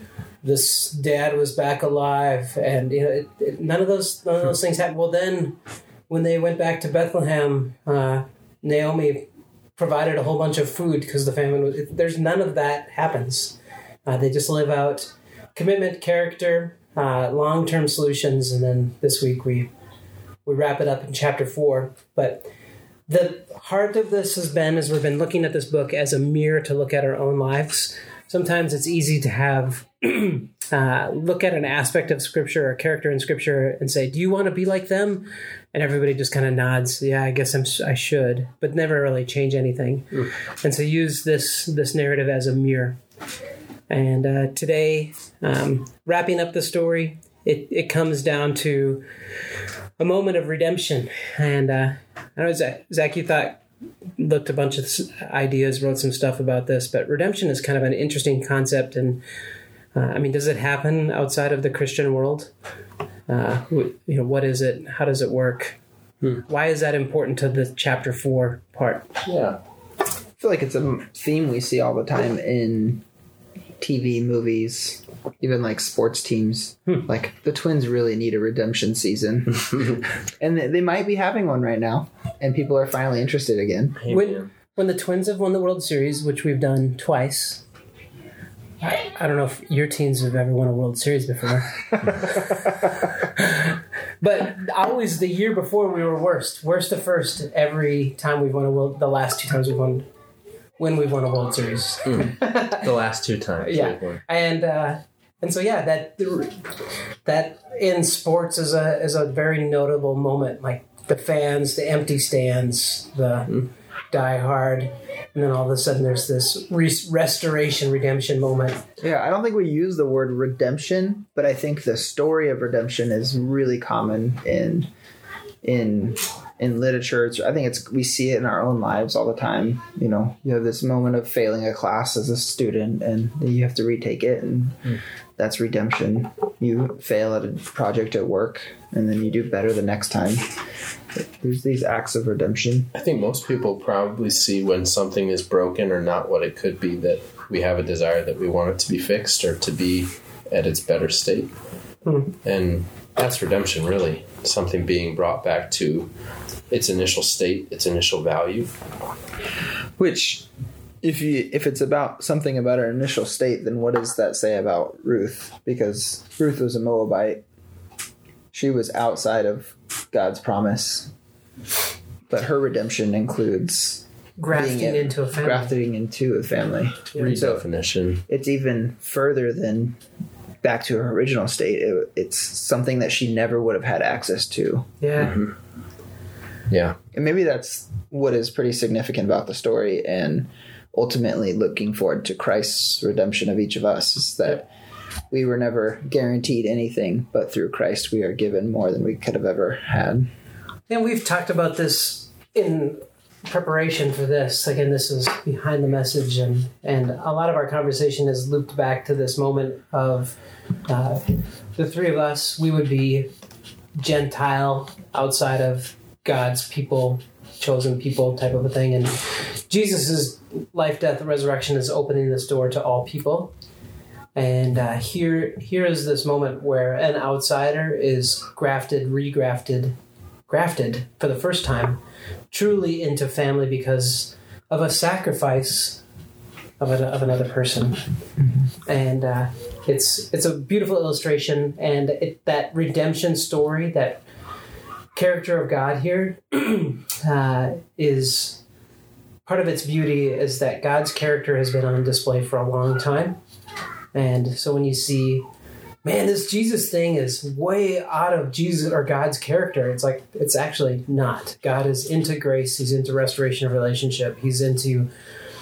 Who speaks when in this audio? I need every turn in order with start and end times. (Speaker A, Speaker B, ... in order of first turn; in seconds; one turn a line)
Speaker A: 0.4-5.6
Speaker A: 6.1-19.7
Speaker A: 20.4-22.5
Speaker A: 23.1-43.0
Speaker A: 43.9-49.0
Speaker A: 50.0-53.6
Speaker A: 54.2-59.2
Speaker A: 59.9-62.5
Speaker A: 63.3-65.8
Speaker A: 66.5-69.1
Speaker B: 69.2-69.6
Speaker C: 70.4-73.0
Speaker C: 73.8-84.0
Speaker B: 79.7-80.0
Speaker B: 84.0-84.5
Speaker A: 84.1-87.6
Speaker A: 88.8-100.1
Speaker A: 100.8-102.9
Speaker B: 102.0-104.2
Speaker A: 103.6-106.7
Speaker A: 107.2-118.8
Speaker C: 119.0-124.9
Speaker C: 125.6-140.5
Speaker C: 141.4-142.9
Speaker B: 142.9-151.5
Speaker A: 152.1-152.3
Speaker B: 152.4-156.1
Speaker B: 156.7-158.7
Speaker C: 160.0-160.5
Speaker C: 161.0-167.4
Speaker C: 168.5-171.1
Speaker C: 172.3-177.7
Speaker A: 174.4-175.7
Speaker A: 177.1-177.4
Speaker B: 177.1-178.2
Speaker C: 178.3-180.0
Speaker C: 180.6-184.9
Speaker A: 185.0-185.4
Speaker B: 185.2-185.5
Speaker B: 186.7-187.0
Speaker C: 187.1-194.7
Speaker C: 195.3-200.3
Speaker A: 200.9-213.3
Speaker A: 214.0-223.5
Speaker A: 224.3-229.9
Speaker A: 230.5-232.0
Speaker A: 232.5-236.0
Speaker A: 236.8-238.0
Speaker A: 238.8-244.2
Speaker A: 245.1-248.6
Speaker A: 249.4-253.4
Speaker A: 254.1-255.4
Speaker A: 256.0-265.1